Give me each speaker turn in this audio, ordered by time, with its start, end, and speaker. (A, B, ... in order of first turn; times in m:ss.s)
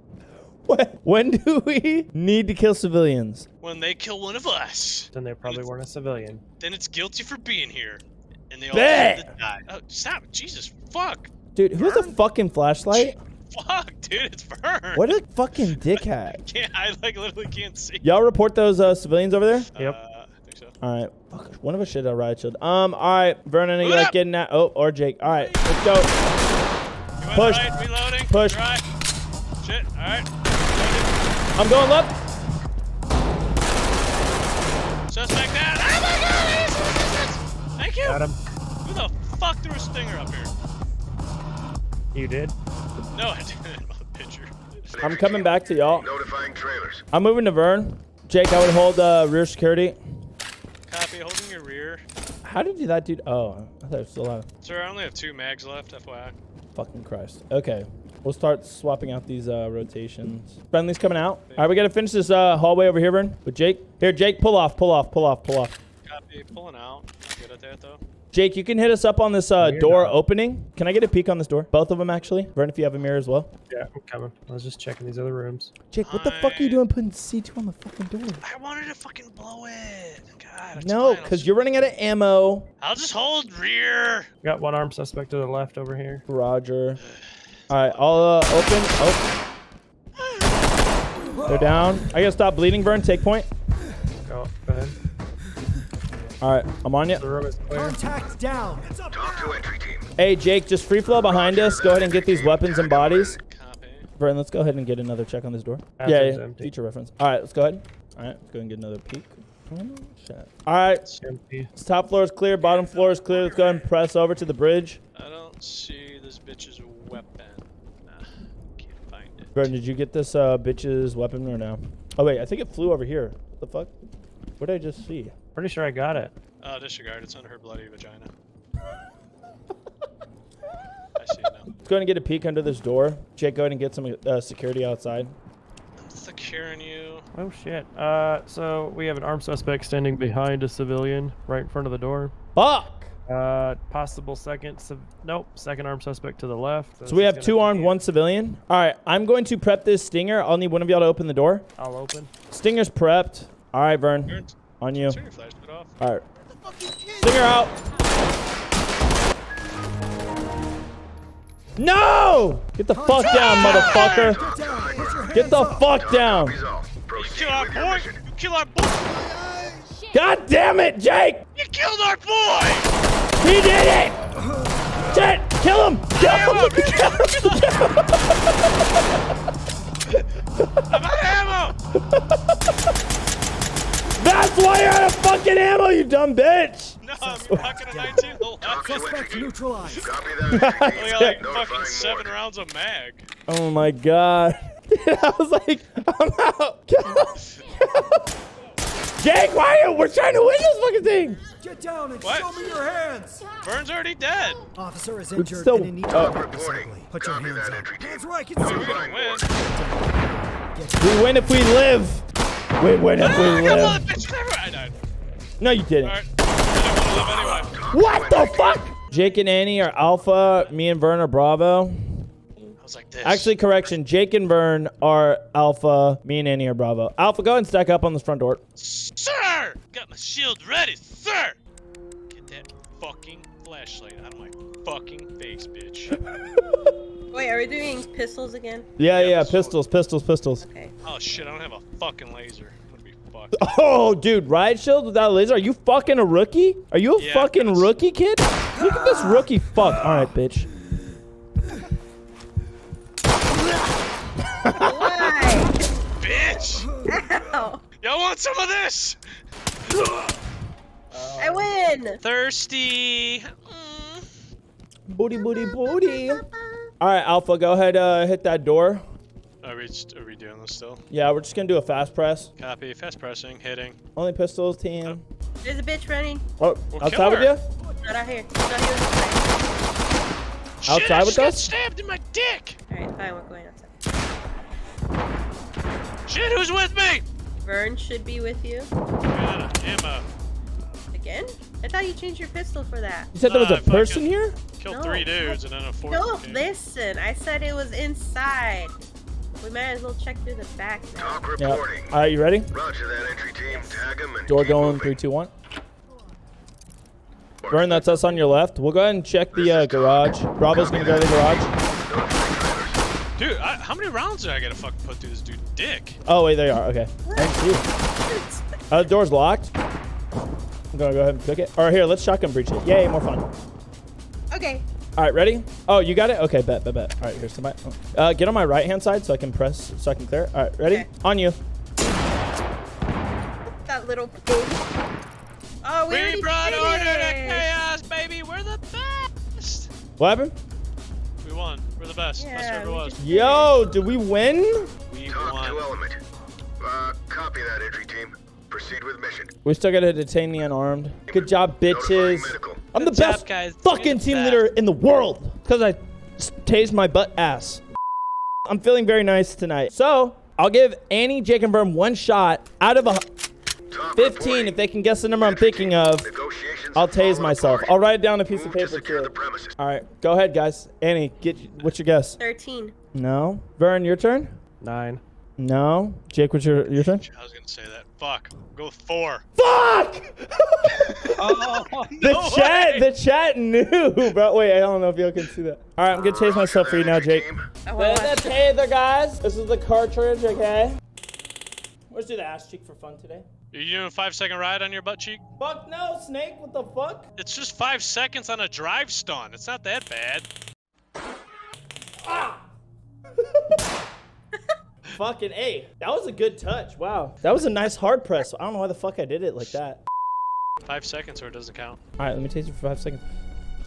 0:00.6-0:03.4 A
0:03.6-0:05.6 B
0:05.1-0:06.4 C
0:06.6-0:12.1 B
0:08.7-0:09.3 A
0:11.5-0:13.2 A
0:12.9-0:15.1 B
0:14.9-0:16.4 A
0:15.9-0:18.1 B
0:18.0-0:19.7 A
0:19.7-0:20.7 B
0:20.8-0:26.1 A
0:23.8-0:24.1 B
0:27.2-0:28.8 B
0:27.3-0:28.6 A
0:29.6-0:31.1 B
0:31.6-0:32.2 A
0:35.1-0:38.2 B
0:38.0-0:38.4 C
0:38.8-0:40.5 B
0:42.1-0:42.5 C
0:43.1-0:44.9 B
0:44.9-0:47.0 D
0:45.0-0:46.1 A
0:47.1-0:50.0 A
0:50.9-0:52.0 B
0:52.4-0:54.4 A
0:54.6-0:56.3 B
0:56.8-1:05.7 A
1:01.4-1:01.8 B
1:06.0-1:08.0 B
1:08.3-1:13.5 A
1:09.6-1:10.2 C
1:13.7-1:15.7 C
1:15.9-1:18.4 A
1:16.0-1:16.8 B
1:18.4-1:21.5 B
1:20.8-1:22.6 A
1:22.8-1:24.3 B
1:24.4-1:26.2 C
1:26.3-1:27.0 A
1:27.1-1:28.4 B
1:27.7-1:29.2 A
1:30.2-1:30.5 B
1:31.4-1:33.5 A
1:34.2-1:35.0 C
1:36.4-1:37.2 A
1:37.1-1:38.0 C
1:37.7-1:39.6 E
1:39.1-1:40.1 D
1:40.2-1:43.4 A
1:41.1-1:43.4 D
1:43.4-1:44.1 B
1:44.2-1:51.0 A
1:46.0-1:46.7 C
1:51.2-1:51.7 C
1:51.7-1:55.0 A
1:52.6-1:53.8 B
1:55.1-1:59.7 B
1:59.5-2:03.9 A
2:04.6-2:05.3 A
2:05.5-2:06.3 C
2:06.6-2:08.3 B
2:11.2-2:11.7 B
2:11.8-2:15.3 A
2:16.0-2:17.2 B
2:17.3-2:22.3 C
2:22.6-2:23.1 A
2:23.3-2:28.0 C
2:27.0-2:31.6 A
2:31.8-2:32.3 C
2:32.5-2:35.2 A
2:34.2-2:35.9 B
2:36.0-2:36.2 A
2:37.2-2:37.7 A
2:41.8-2:44.4 A
2:42.9-2:45.9 E
2:43.4-2:44.4 B
2:44.2-2:45.3 D
2:45.3-2:46.6 A
2:45.9-2:48.2 D
2:47.1-2:49.6 B
2:50.1-2:51.4 A
2:51.6-2:52.9 B
2:53.4-2:54.2 A
2:55.0-2:59.2 A
2:56.1-2:57.9 B
3:00.6-3:00.9 A
3:00.9-3:01.8 B
3:02.0-3:02.5 A
3:04.2-3:08.2 A
3:07.0-3:09.5 B
3:08.6-3:09.4 D
3:08.7-3:10.1 E
3:10.0-3:12.3 D
3:10.4-3:11.4 A
3:10.9-3:13.3 B
3:13.5-3:18.2 A
3:19.2-3:21.4 A
3:21.6-3:23.5 E
3:22.2-3:22.7 B
3:23.5-3:24.6 B
3:24.8-3:31.1 E
3:25.3-3:26.4 A
3:26.1-3:29.4 D
3:28.6-3:29.4 B
3:31.0-3:32.2 A
3:32.8-3:34.1 A
3:33.2-3:35.0 B
3:35.6-3:36.2 A
3:36.0-3:37.8 B
3:37.5-3:38.8 D
3:37.9-3:42.3 A
3:38.9-3:40.8 B
3:42.8-3:43.6 B
3:43.2-3:48.6 A
3:48.8-3:51.6 B
3:52.3-3:56.2 B
3:56.3-3:56.9 A
3:57.3-3:58.9 F
3:59.0-4:00.6 A
3:59.1-3:59.8 B
4:00.6-4:00.9 F
4:01.0-4:03.6 B
4:03.5-4:10.7 A
4:07.2-4:07.9 B
4:14.6-4:15.5 A
4:14.8-4:15.8 F
4:16.2-4:17.0 B
4:17.0-4:17.8 F
4:18.0-4:19.2 B
4:19.9-4:20.3 B
4:21.1-4:21.7 A
4:21.4-4:22.2 F
4:22.2-4:24.3 B
4:25.1-4:26.4 A
4:25.3-4:26.9 F
4:27.0-4:29.0 A
4:29.6-4:31.0 B
4:31.1-4:32.5 A
4:32.6-4:34.0 B
4:34.2-4:35.2 A
4:35.6-4:36.4 F
4:36.6-4:37.6 A
4:36.9-4:37.5 B
4:38.0-4:39.8 F
4:40.8-4:42.8 B
4:40.9-4:41.7 A
4:42.9-4:43.9 F
4:46.3-4:47.2 B
4:47.6-4:48.9 F
4:49.3-4:50.2 B
4:51.1-4:53.3 F
4:53.3-4:54.6 A
4:53.4-4:56.7 B
4:54.9-4:58.9 F
4:59.6-5:01.4 F
5:01.2-5:02.1 D
5:01.6-5:02.7 A
5:02.7-5:05.1 D
5:03.7-5:04.0 F
5:04.4-5:05.5 A
5:07.6-5:08.0 D
5:07.7-5:11.7 A
5:08.0-5:08.4 F
5:09.5-5:13.0 D
5:13.4-5:16.2 B
5:16.2-5:17.8 A
5:17.2-5:17.5 F
5:18.2-5:18.8 F
5:18.9-5:19.7 A
5:20.9-5:23.5 A
5:24.5-5:24.8 F
5:25.2-5:31.6 A
5:33.8-5:34.8 F
5:35.8-5:37.8 F
5:36.1-5:39.9 B
5:40.2-5:40.5 A
5:41.4-5:43.2 B
5:42.4-5:43.9 F
5:43.2-5:44.9 A
5:45.1-5:45.9 B
5:45.3-5:46.2 D
5:46.8-5:49.5 D
5:49.6-5:57.8 A
5:51.3-5:52.8 D
5:52.9-5:54.7 B
5:58.7-6:03.2 A
6:03.9-6:04.7 D
6:04.1-6:06.3 A
6:05.4-6:07.9 D
6:06.9-6:12.4 A
6:08.5-6:09.8 D
6:12.4-6:12.9 F
6:13.1-6:14.5 A
6:14.8-6:15.2 C
6:15.6-6:17.2 A
6:16.9-6:19.4 B
6:19.6-6:21.6 A
6:21.0-6:23.1 B
6:22.2-6:31.0 A
6:26.2-6:27.7 D
6:27.8-6:28.6 F
6:32.1-6:33.4 A
6:33.7-6:35.4 B
6:35.6-6:37.3 A
6:37.4-6:40.5 B
6:42.2-6:42.6 A
6:43.4-6:43.6 A
6:45.1-6:50.0 A
6:50.8-6:52.0 B
6:52.2-6:53.2 A